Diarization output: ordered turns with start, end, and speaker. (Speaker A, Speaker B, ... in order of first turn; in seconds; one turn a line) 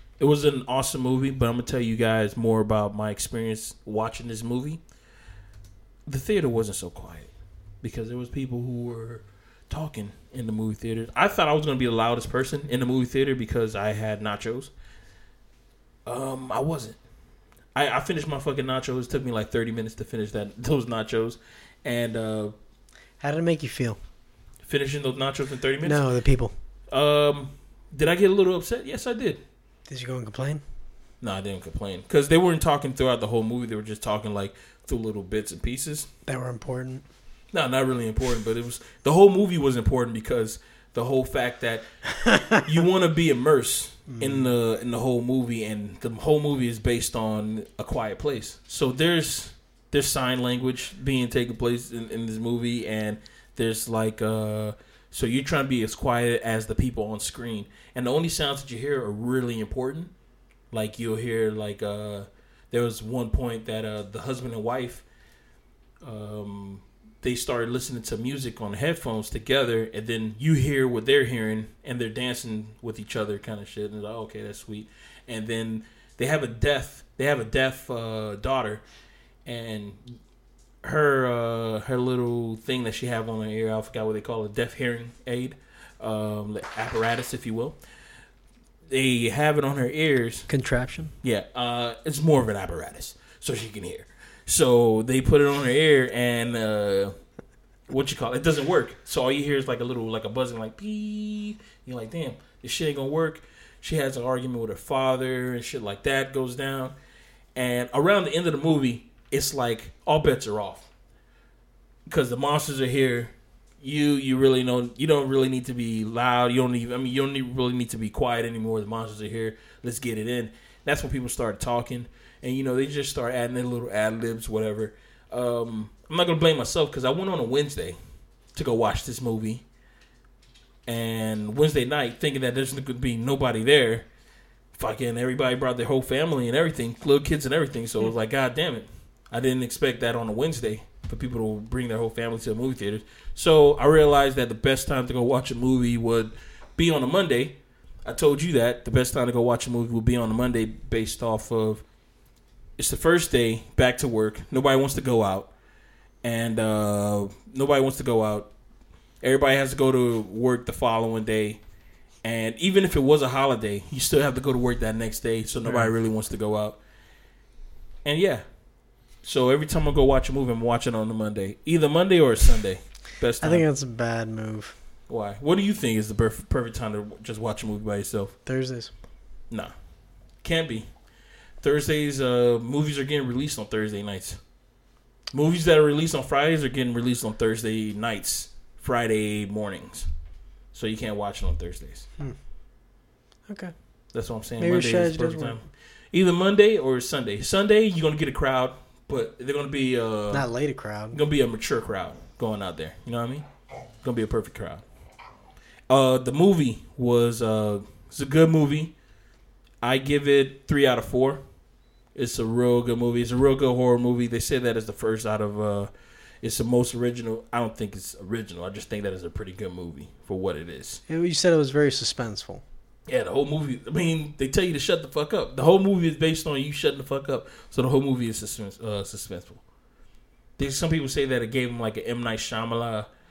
Speaker A: 0.2-4.8
Speaker A: 6.1-7.3
Speaker A: 7.8-14.7
Speaker A: 16.1-17.0
Speaker A: 17.7-22.5
Speaker B: 23.2-24.0
Speaker A: 24.6-26.0
Speaker B: 25.8-26.5
Speaker A: 26.9-29.4
Speaker B: 29.9-30.6
Speaker A: 31.2-36.1
Speaker B: 36.2-37.0
Speaker A: 37.5-60.1
Speaker B: 44.1-44.4
Speaker A: 60.7-65.0
Speaker A: 66.0-78.8
Speaker A: 79.5-80.1
Speaker A: 80.8-87.8
Speaker A: 88.9-90.5
Speaker B: 90.5-91.1
Speaker A: 91.2-97.1
Speaker A: 97.9-106.9
Speaker A: 107.5-110.9
Speaker A: 112.1-128.0
Speaker A: 128.5-129.6
Speaker A: 130.8-134.1
Speaker A: 134.7-151.8
Speaker A: 152.8-155.5
Speaker A: 156.2-158.5
Speaker A: 159.2-161.6
Speaker A: 162.2-166.8
Speaker A: 168.0-168.4
Speaker A: 169.2-173.6
Speaker B: 173.4-174.7
Speaker A: 175.1-178.3
Speaker B: 178.4-178.9
Speaker A: 180.4-180.9
Speaker A: 181.6-184.4
Speaker A: 185.3-190.1
Speaker A: 190.7-192.1
Speaker B: 193.5-193.7
Speaker A: 194.1-200.4
Speaker B: 194.6-195.6
Speaker B: 200.3-201.2
Speaker A: 201.1-203.4
Speaker A: 204.0-204.8
Speaker A: 205.9-208.9
Speaker A: 209.8-211.4
Speaker A: 212.1-215.9
Speaker A: 216.4-221.0
Speaker B: 221.1-222.6
Speaker A: 223.1-229.6
Speaker A: 230.6-233.1